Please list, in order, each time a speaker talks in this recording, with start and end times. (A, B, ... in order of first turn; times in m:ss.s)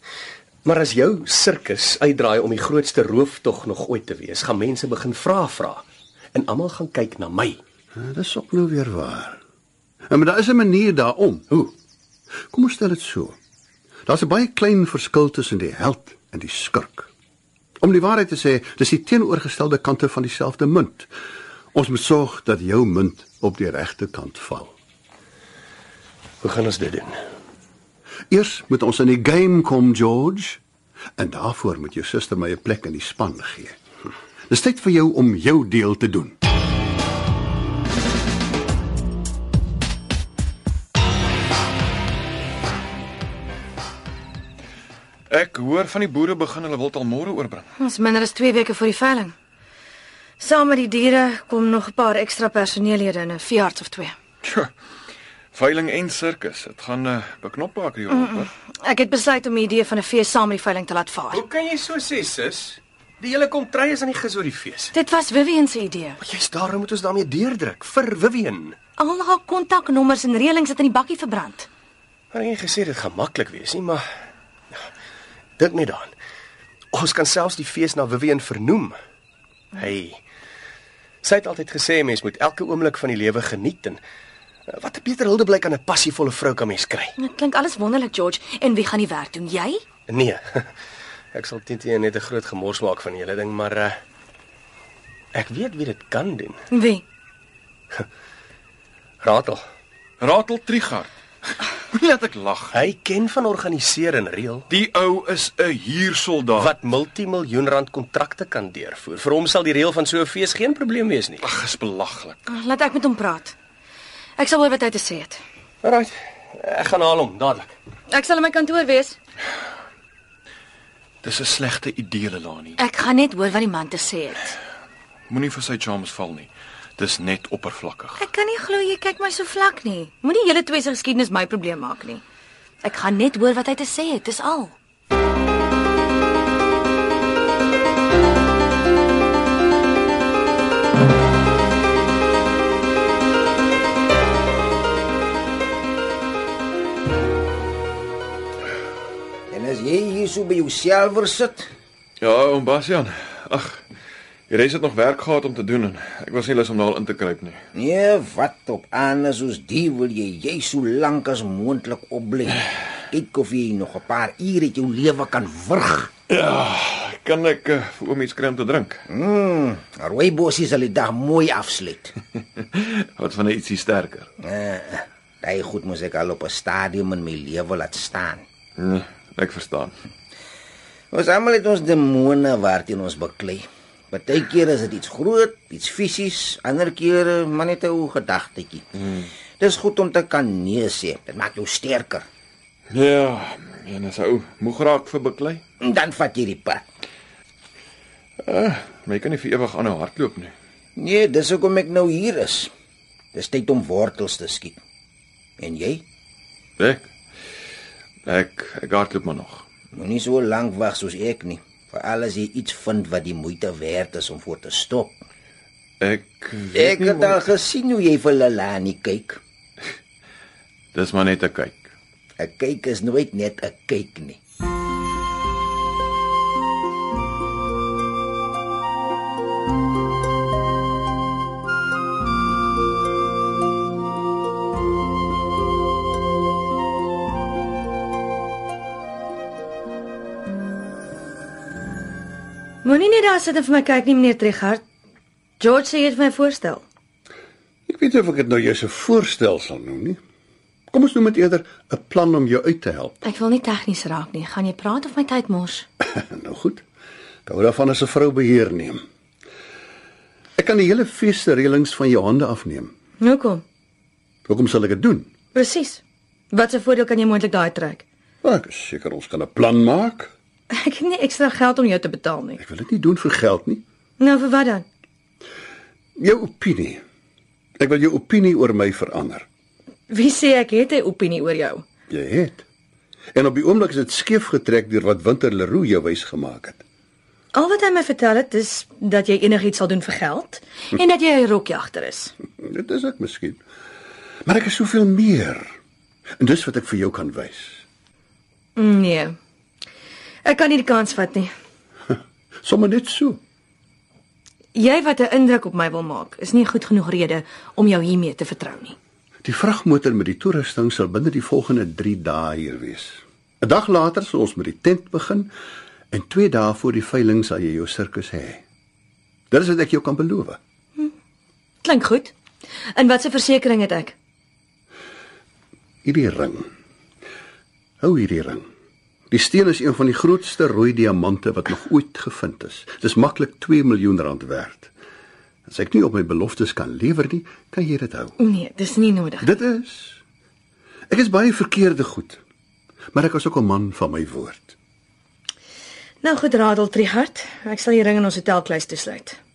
0:00.6-0:07.6 A
0:08.0-0:09.4 B
0:10.1-0:11.7 B
0:12.5-0:13.4 B
0:14.1-0:17.1 B
0:17.8-0:21.1 B
0:21.7-0:24.7 B
0:26.4-0:27.2 A
0:28.3-0:30.6 B
0:31.2-0:33.8 B
0:34.5-0:36.4 B
0:45.3-0:47.7 C
0:47.8-0:49.3 D
0:50.4-0:54.2 D
0:54.4-0:54.7 C
0:55.5-0:58.5 C
0:58.1-1:01.4 D
1:01.3-1:04.9 A
1:04.9-1:06.2 D
1:06.2-1:08.8 A
1:09.0-1:11.7 D
1:12.3-1:14.0 A
1:15.6-1:16.1 A
1:16.9-1:19.0 A
1:19.7-1:20.2 A
1:21.2-1:24.0 A
1:24.7-1:27.1 A
1:27.2-1:29.8 D
1:30.1-1:30.7 A
1:31.3-1:33.9 A
1:35.3-1:36.6 A
1:36.7-1:37.0 D
1:39.2-1:39.6 A
1:40.2-1:41.1 C
1:41.6-1:42.8 C
1:42.7-1:44.7 A
1:44.7-1:46.7 C
1:46.6-1:51.4 A
1:51.4-1:52.4 C
1:52.5-1:53.6 D
1:54.4-1:55.4 D
1:55.8-1:57.7 A
1:58.1-1:59.2 D
2:01.2-2:02.8 C
2:02.8-2:04.6 D
2:05.3-2:08.2 C
2:08.2-2:12.2 D
2:12.8-2:14.8 D
2:29.5-2:31.7 E
2:32.2-2:33.8 C
2:34.5-2:37.6 C
2:37.8-2:46.1 E
2:46.3-2:49.0 C
2:49.1-2:52.2 E
2:52.6-2:54.3 C
2:54.4-2:58.4 E
2:58.8-2:59.9 C
3:01.1-3:09.0 E
3:09.6-3:12.3 E
3:12.9-3:15.6 C
3:15.8-3:16.8 E
3:18.5-3:20.6 C
3:21.0-3:22.7 E
3:23.3-3:24.8 E
3:25.6-3:26.0 E
3:26.8-3:27.1 C
3:28.3-3:29.7 C
3:29.9-3:35.2 E
3:36.0-3:37.5 C
3:36.7-3:39.4 E
3:40.9-3:41.9 C
3:42.4-3:44.4 E
4:02.8-4:04.8 D
4:05.6-4:06.8 D
4:07.9-4:10.2 B
4:10.9-4:13.2 B
4:13.2-4:15.9 D
4:16.0-4:16.8 B
4:17.5-4:19.0 B
4:20.6-4:22.9 B
4:23.2-4:23.6 D
4:24.5-4:25.3 B
4:25.5-4:28.0 D
4:28.4-4:30.3 B
4:30.7-4:32.6 D
4:32.6-4:33.8 B
4:34.2-4:34.8 D
4:36.2-4:37.0 B
4:37.8-4:39.5 B
4:40.1-4:41.8 D
4:42.1-4:42.6 B
4:43.3-4:46.8 B
4:47.5-4:52.3 D
4:52.6-4:53.6 B
4:54.4-4:55.7 B
4:56.4-4:57.8 B
4:58.8-4:59.4 D
5:00.4-5:01.5 D
5:02.6-5:03.4 B
5:04.8-5:09.0 D
5:09.4-5:15.5 B
5:16.1-5:18.6 B
5:19.5-5:20.6 B
5:21.8-5:22.3 D
5:22.9-5:24.2 D
5:26.0-5:26.7 B
5:28.0-5:28.6 B
5:29.3-5:34.9 B
5:35.7-5:38.4 B
5:38.4-5:39.5 D
5:39.4-5:40.2 B
5:41.1-5:42.4 B
5:43.1-5:44.8 B
5:46.2-5:49.4 D